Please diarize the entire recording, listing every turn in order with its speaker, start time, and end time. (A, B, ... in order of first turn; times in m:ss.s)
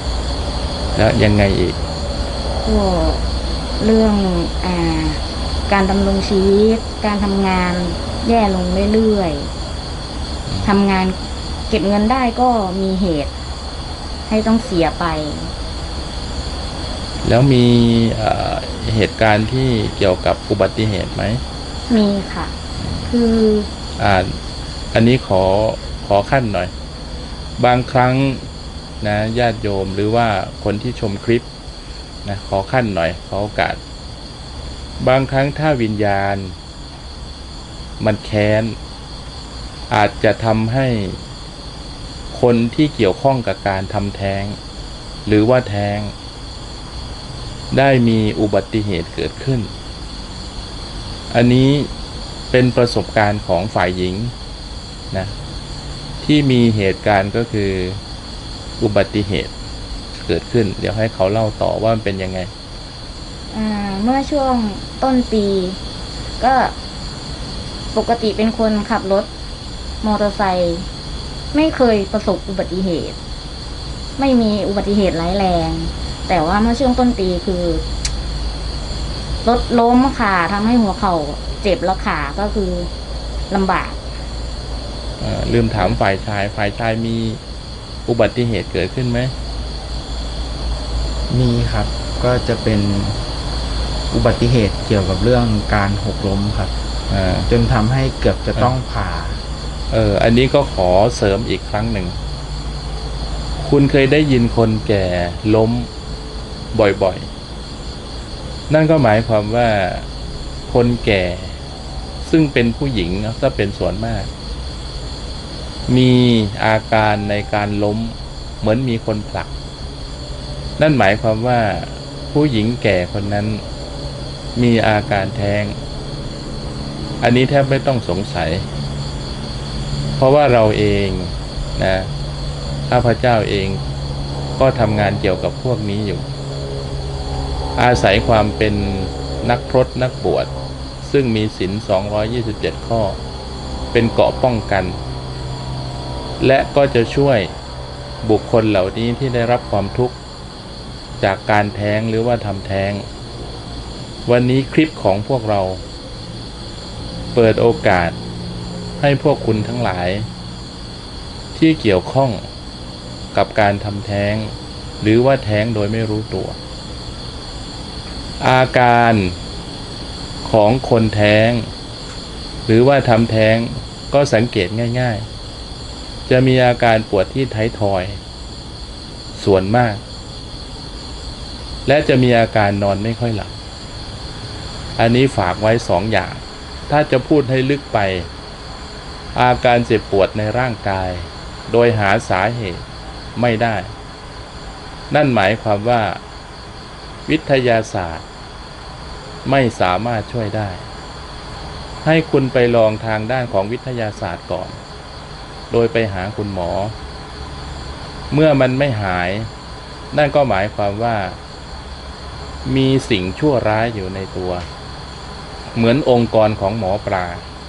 0:01.0-0:01.8 A
0:02.6-0:03.2 B
0:03.8-0:09.5 B
0:10.5-0:10.7 A
0:10.6-0:13.3 B
0:14.3-0:15.5 B
0:17.2-0:21.4 A
0:21.9-0:22.5 B
0:22.8-0:23.1 A
0:23.1-0:23.7 B
0:24.0-0:24.4 A
0:24.9-0:26.7 A
0:27.6-0:28.5 A
0:29.0-0:31.5 A
0:32.2-0:33.8 A
0:35.0-0:36.6 A
0:38.0-0:38.8 A
0:39.9-0:41.2 A
0:42.3-0:44.6 A
0:45.3-0:46.1 A
0:47.7-0:49.7 A
0:51.3-0:51.9 A
0:52.5-0:54.3 A
0:56.2-0:58.0 A
0:58.8-0:59.5 A
1:00.2-1:02.5 A
1:03.5-1:05.8 B
1:06.4-1:06.7 B
1:07.9-1:09.3 B
1:10.0-1:10.9 B
1:11.5-1:13.2 B
1:14.2-1:17.9 B
1:19.4-1:22.9 B
1:23.5-1:24.0 B
1:25.2-1:27.4 A
1:28.1-1:29.3 A
1:31.3-1:33.2 C
1:34.1-1:36.7 C
1:37.1-1:37.5 A
1:37.5-1:39.4 C
1:39.9-1:42.2 A
1:43.6-1:45.9 A
1:46.7-1:47.3 A
1:48.7-1:50.1 A
1:50.7-1:51.6 A
1:52.2-1:54.3 A
1:55.9-1:59.5 A
2:00.8-2:03.6 A
2:04.6-2:05.8 A
2:07.2-2:08.7 A
2:10.2-2:12.1 A
2:12.9-2:13.8 A
2:14.6-2:16.3 A
2:17.8-2:20.5 A
2:21.0-2:23.2 A
2:23.9-2:25.0 A
2:26.4-2:27.5 A
2:28.2-2:30.2 A
2:31.2-2:33.1 A
2:34.3-2:35.8 A
2:37.3-2:38.2 A
2:39.0-2:40.3 A
2:41.6-2:42.4 A
2:43.3-2:46.6 A
2:48.4-2:49.4 A
2:50.4-2:51.7 A
2:52.7-2:55.3 A
2:56.3-2:58.2 A
2:59.3-3:00.0 A
3:01.9-3:03.5 A
3:05.0-3:08.3 A
3:09.4-3:12.8 A
3:13.4-3:13.9 A
3:15.1-3:16.2 A
3:17.3-3:18.3 A
3:19.4-3:20.9 A
3:22.0-3:24.8 A
3:25.7-3:26.9 A
3:28.3-3:29.5 A
3:30.1-3:31.4 A
3:32.6-3:34.7 A
3:35.7-3:37.4 A